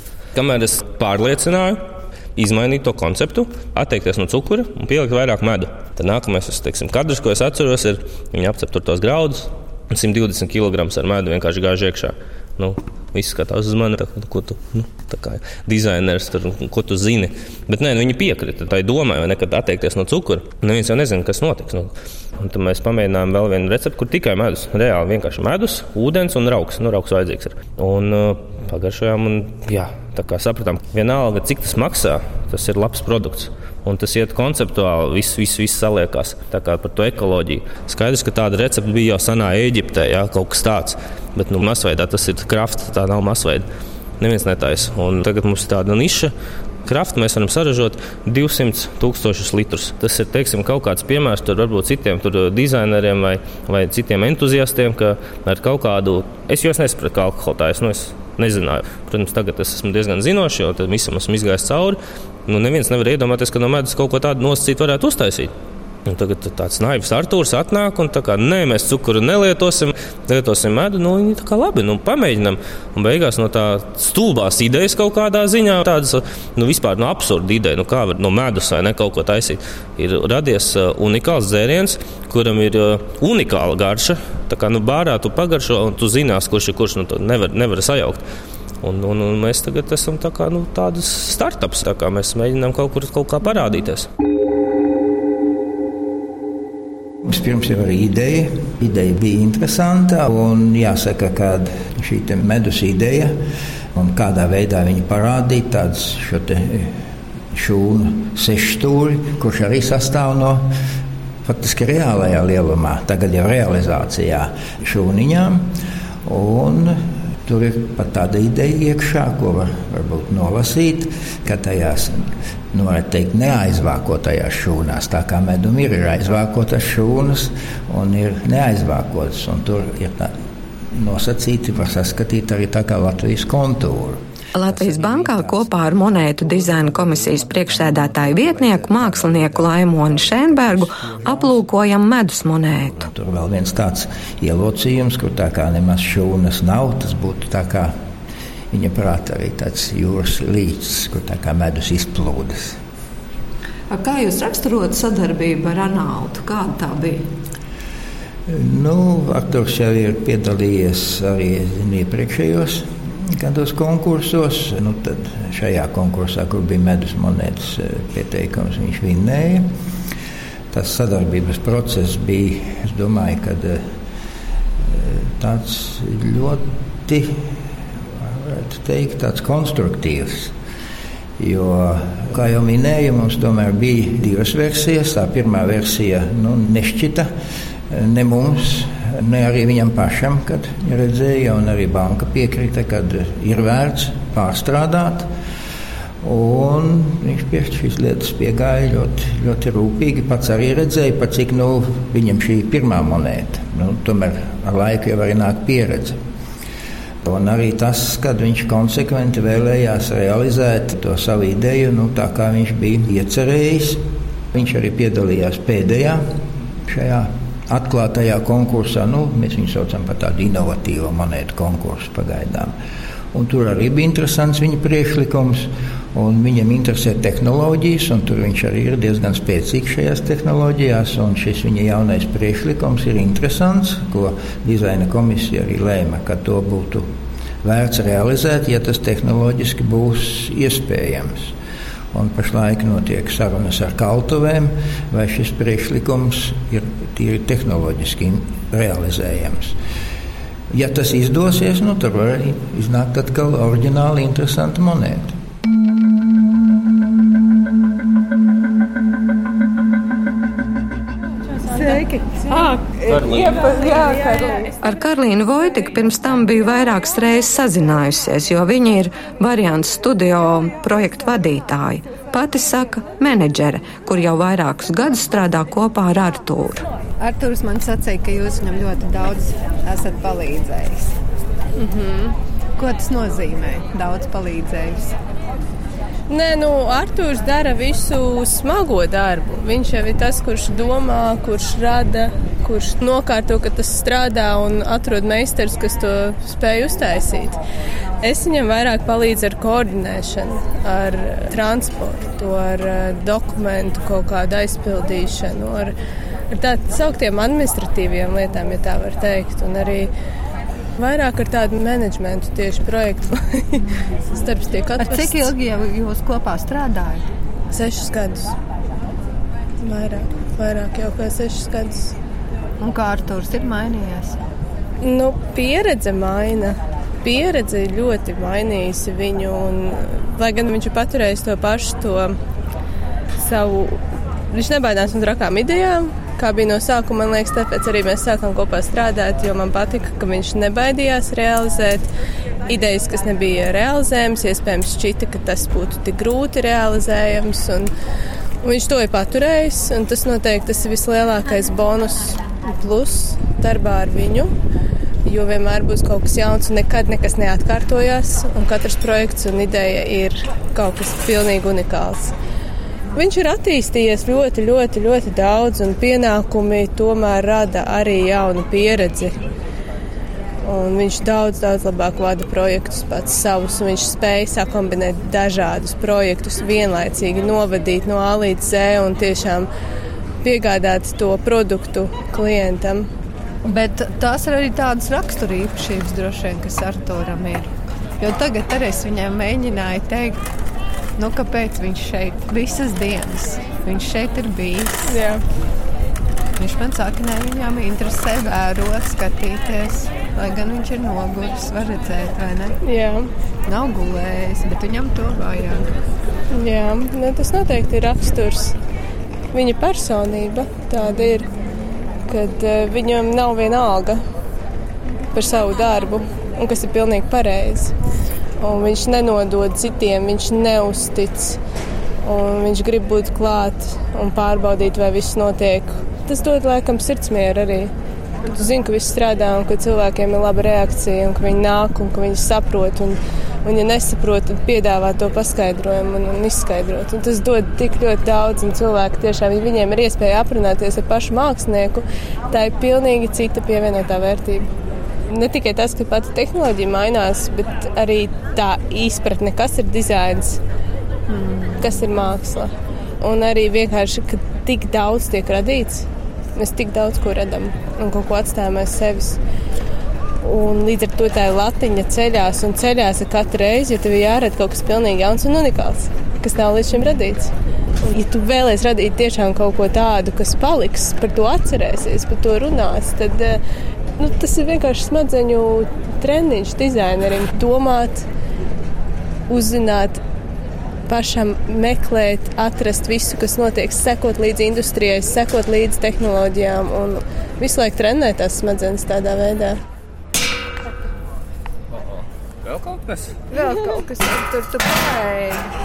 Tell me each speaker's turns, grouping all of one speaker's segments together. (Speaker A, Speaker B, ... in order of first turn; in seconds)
Speaker A: 0.3-1.8, 2.4-43.6, 44.2-46.3, 46.8-65.5, 66.0-88.2, 88.8-94.1, 263.1-263.7, 492.0-493.4
Speaker B: 97.2-103.4, 103.9-107.0, 107.5-110.7, 111.4-115.7, 116.2-130.3, 130.9-134.2, 143.0-147.9, 148.7-152.8, 158.5-169.7, 170.7-173.8, 174.8-177.5, 178.2-180.5, 181.4-187.3, 187.9-195.3, 196.2-206.2, 207.2-214.0, 214.5-216.2, 216.9-222.7, 223.3-237.1, 237.6-241.5, 242.1-249.8, 250.7-255.3
Speaker C: 134.5-143.0, 264.8-276.8
Speaker D: 153.9-157.2, 261.6-264.7, 277.2-281.1, 281.9-282.2, 282.8-285.1, 315.0-317.2, 322.8-324.4, 383.6-390.4, 391.2-395.1, 396.6-402.8, 403.6-405.9, 451.3-451.9, 493.5-495.4
Speaker E: 286.3-297.6, 298.2-305.9, 306.5-310.1, 311.0-315.5, 317.7-318.5, 319.8-322.1, 325.0-332.3, 333.4-342.1, 342.7-347.9, 348.6-354.5, 355.2-362.3, 363.1-369.4, 370.6-379.7, 380.4-383.1, 395.1-395.4, 402.8-403.3, 406.5-408.7, 409.5-411.5, 412.2-414.2, 415.3-417.9, 418.6-421.6, 422.2-427.9, 428.4-444.6, 445.3-450.6, 451.8-452.7, 453.2-459.4, 460.4-473.6, 474.2-478.2, 479.5-480.2, 481.1-489.8, 493.6-494.0